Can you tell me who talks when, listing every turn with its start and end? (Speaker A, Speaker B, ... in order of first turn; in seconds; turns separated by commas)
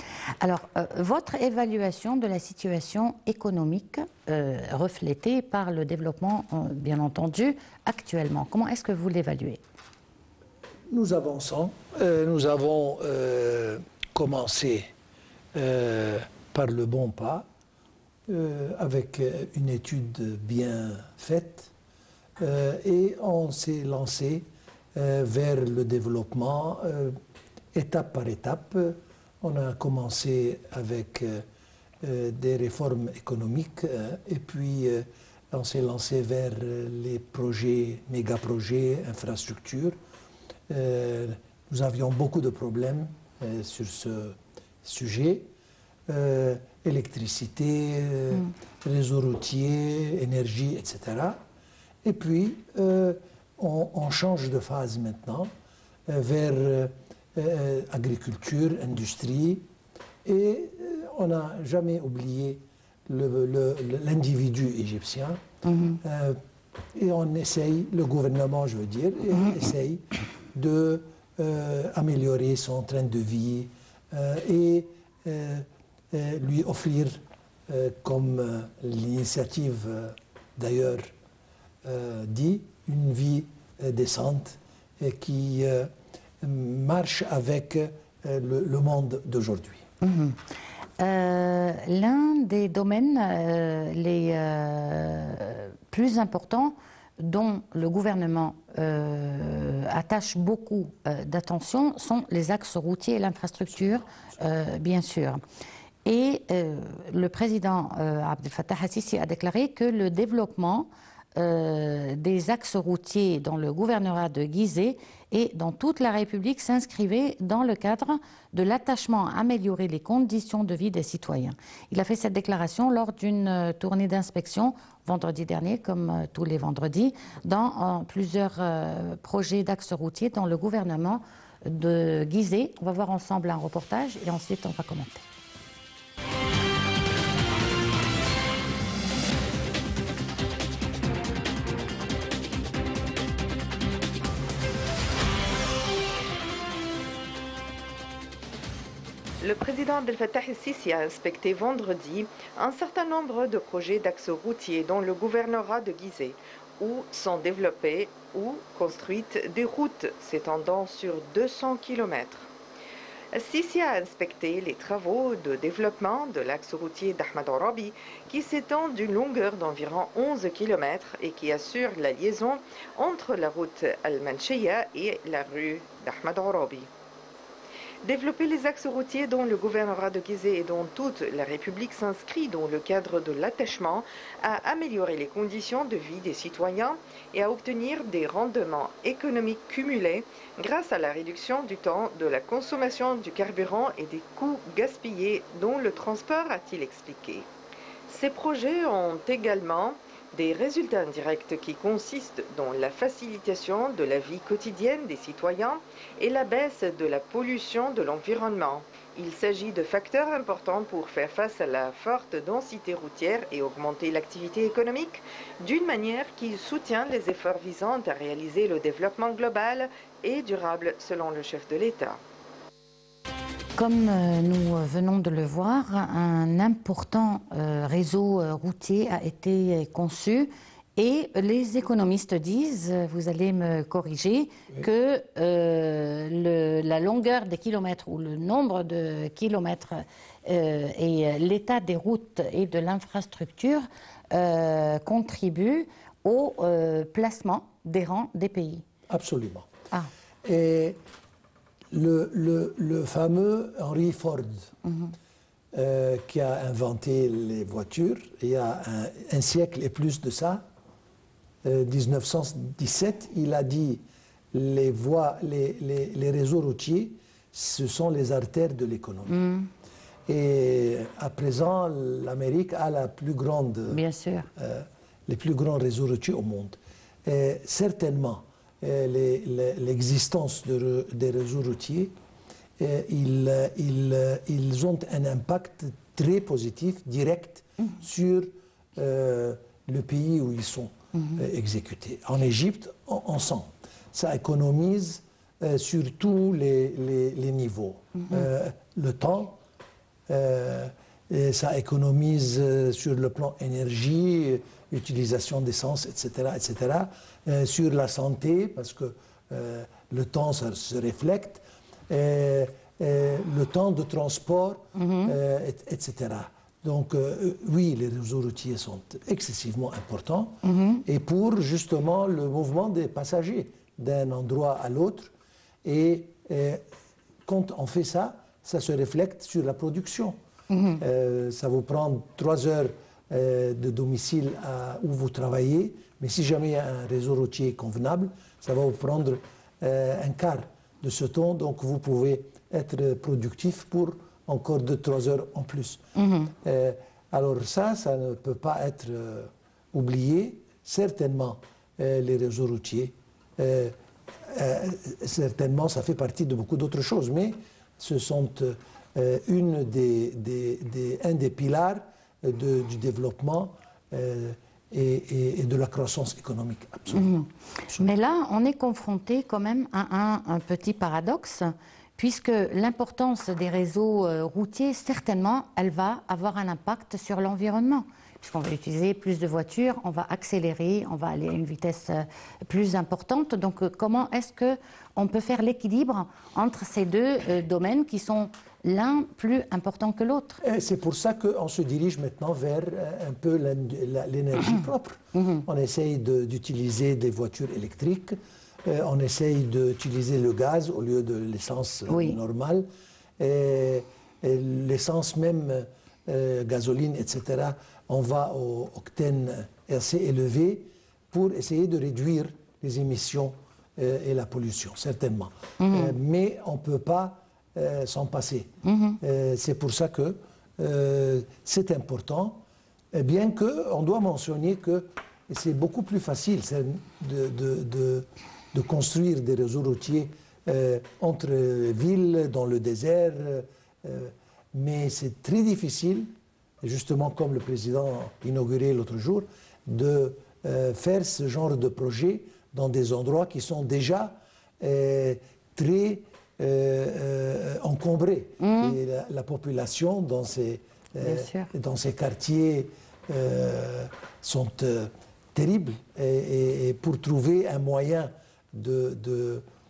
Speaker A: 0.4-9.6, Speaker B: 10.9-14.9, Speaker B: 15.6-17.5, Speaker B: 18.3-21.7, Speaker B: 22.4-27.2, Speaker B: 27.7-31.4, Speaker B: 32.0-40.0, Speaker B: 40.7-45.5, Speaker B: 46.1-51.4, Speaker B: 52.0-55.5, Speaker B: 56.1-59.6, Speaker B: 60.2-65.4, Speaker A: 65.7-66.0, Speaker B: 66.0-66.4, Speaker B: 66.9-81.1, Speaker B: 81.8-89.9, Speaker A: 90.0-90.4, Speaker A: 91.0-105.4, Speaker A: 106.0-135.2, Speaker C: 149.4-162.5, Speaker C: 163.3-176.9, Speaker C: 178.0-197.5, Speaker C: 198.1-222.2, Speaker A: 223.8-248.8, Speaker B: 249.1-249.7, Speaker B: 250.4-251.0, Speaker B: 251.9-254.7, Speaker A: 254.8-255.1, Speaker B: 255.7-260.6, Speaker B: 261.6-269.4, Speaker A: 269.3-269.7, Speaker B: 270.3-274.0, Speaker A: 273.9-274.5, Speaker B: 274.6-282.1, Speaker B: 282.8-299.6, Speaker B: 300.3-325.3, Speaker A: 314.9-315.4, Speaker A: 320.6-321.0, Speaker B: 325.8-326.8, Speaker B: 327.5-330.4, Speaker A: 330.7-331.0, Speaker B: 331.0-367.4, Speaker A: 346.2-346.5, Speaker A: 367.1-390.6, Speaker B: 390.6-402.9, Speaker A: 395.3-395.7, Speaker A: 402.1-402.4, Speaker B: 403.4-418.7, Speaker A: 415.8-416.1, Speaker A: 418.8-419.2, Speaker B: 419.2-422.6, Speaker B: 423.1-436.3, Speaker B: 436.8-459.6, Speaker A: 448.6-449.0, Speaker A: 451.2-451.7